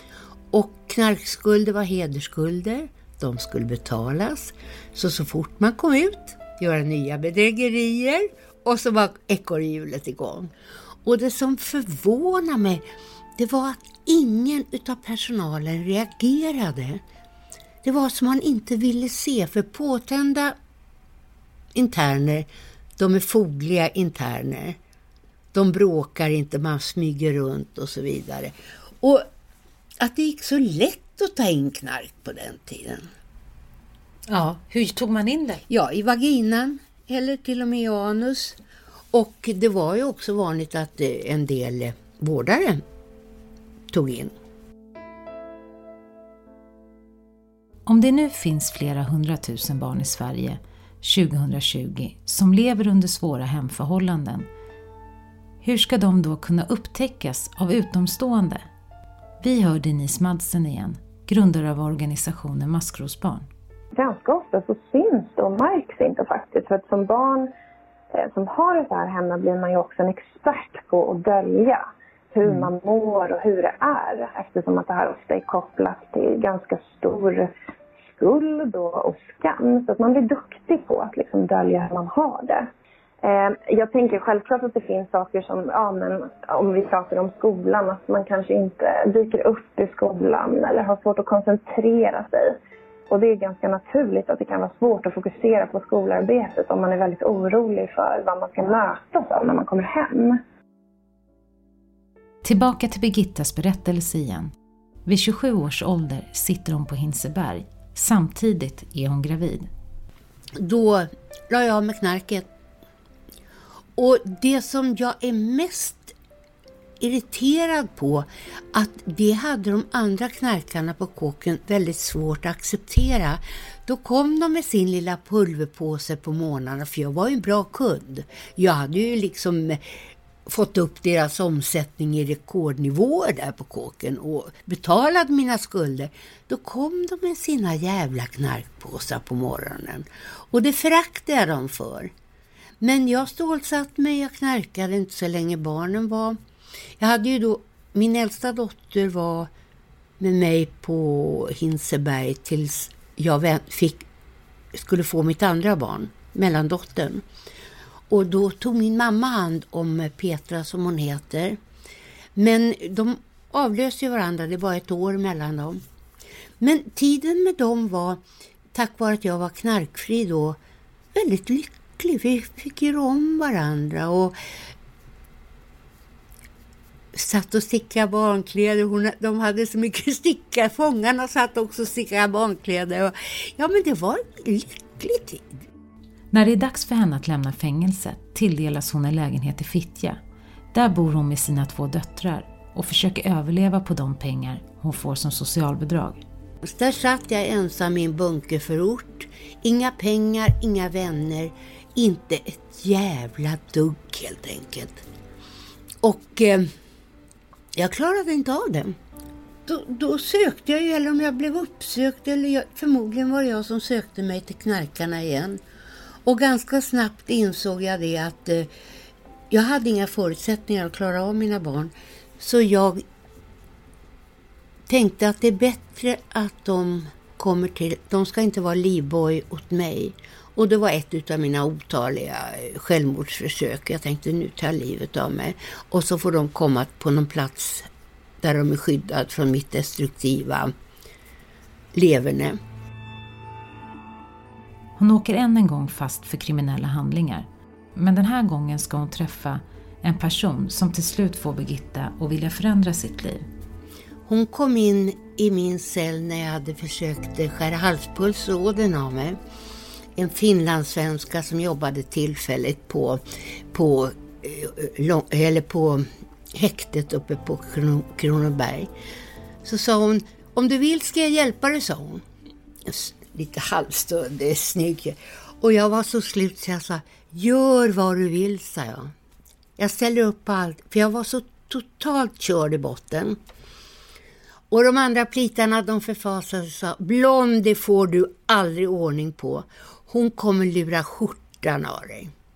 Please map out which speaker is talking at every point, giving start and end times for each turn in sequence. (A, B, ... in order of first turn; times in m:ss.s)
0:00.5-0:10.5 A
0:11.0-0:12.8 A
0:13.4-0:17.0 A
0:17.8-0:20.6 A
0:21.8-0:24.8 A
0:25.5-0:29.3 A
0:30.0-0:33.1 A
0:34.3-0:35.6 B
0:35.7-0:38.6 A
0:39.1-0:42.8 A
0:43.9-0:44.3 A
0:47.9-0:54.5 B
0:55.6-0:58.7 B
0:59.4-1:03.5 B
1:04.0-1:07.5 C
1:08.1-1:17.5 C
1:18.1-1:22.7 C
1:23.2-1:32.6 C
1:33.1-1:40.4 C
1:42.4-1:44.5 B
1:45.1-1:49.7 B
1:50.6-1:52.5 A
1:54.0-1:56.2 A
1:57.0-2:09.8 A
2:10.5-2:22.1 A
2:22.8-2:26.4 A
2:27.0-2:29.5 A
2:30.2-2:34.0 A
2:34.7-2:37.2 A
2:38.1-2:41.6 A
2:42.4-2:45.8 A
2:46.6-2:48.2 A
2:48.7-2:50.6 A
2:51.1-2:54.4 A
2:57.1-3:05.6 A
3:06.3-3:10.2 B
3:10.7-3:16.2 B
3:16.6-3:25.0 A
3:26.0-3:26.7 A
3:27.8-3:29.0 A
3:29.7-3:35.6 A
3:36.2-3:38.7 A
3:39.5-3:43.0 A
3:44.9-3:57.9 A
3:58.4-4:00.7 A
4:01.9-4:02.6 A
4:05.0-4:13.4 B
4:14.3-4:19.4 A
4:20.2-4:28.9 A
4:29.6-4:32.2 A
4:32.9-4:39.1 A
4:39.8-4:43.4 A
4:44.7-4:52.3 A